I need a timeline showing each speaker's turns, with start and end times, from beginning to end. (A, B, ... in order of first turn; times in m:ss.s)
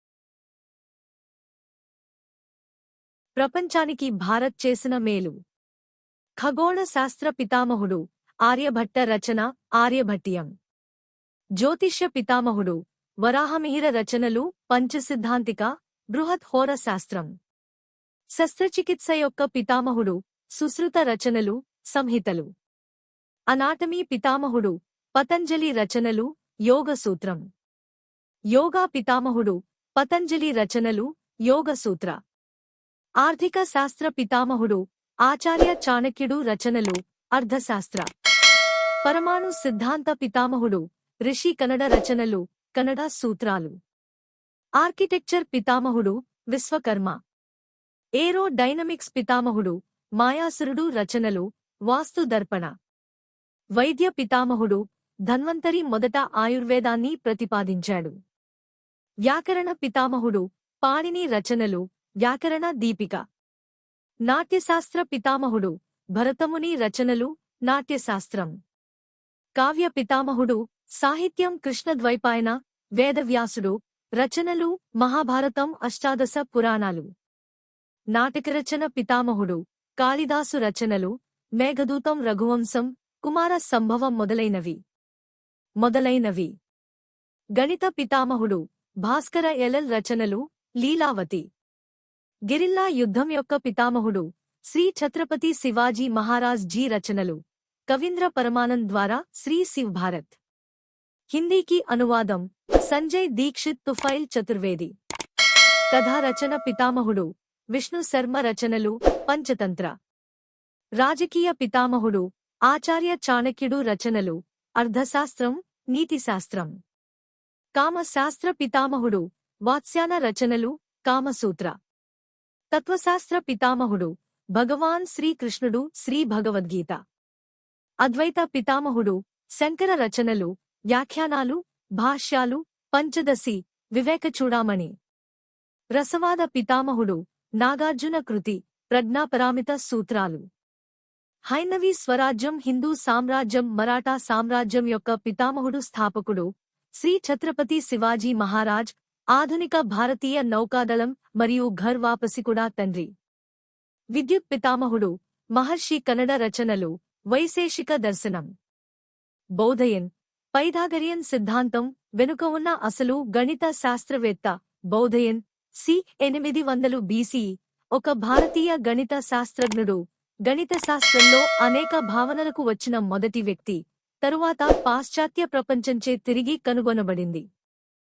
0:03.4-0:05.4 A
0:06.4-0:10.5 A
0:11.6-0:17.3 A
0:18.4-0:22.5 A
0:23.5-0:27.4 A
0:28.5-0:32.2 A
0:33.2-0:38.1 A
0:39.0-0:43.8 A
0:44.8-0:47.2 A
0:48.2-0:52.7 A
0:53.8-0:58.1 A
0:59.2-1:03.2 A
1:04.3-1:08.5 A
1:09.6-1:17.1 A
1:18.1-1:24.8 A
1:25.8-1:26.5 A
1:27.6-1:31.4 A
1:32.5-1:40.4 A
1:41.3-1:44.9 A
1:45.9-1:49.9 A
1:51.0-1:56.7 A
1:57.8-2:01.7 A
2:02.7-2:07.0 A
2:08.0-2:14.9 A
2:15.9-2:20.4 A
2:21.5-2:33.1 A
2:34.2-2:38.5 A
2:39.6-2:57.4 A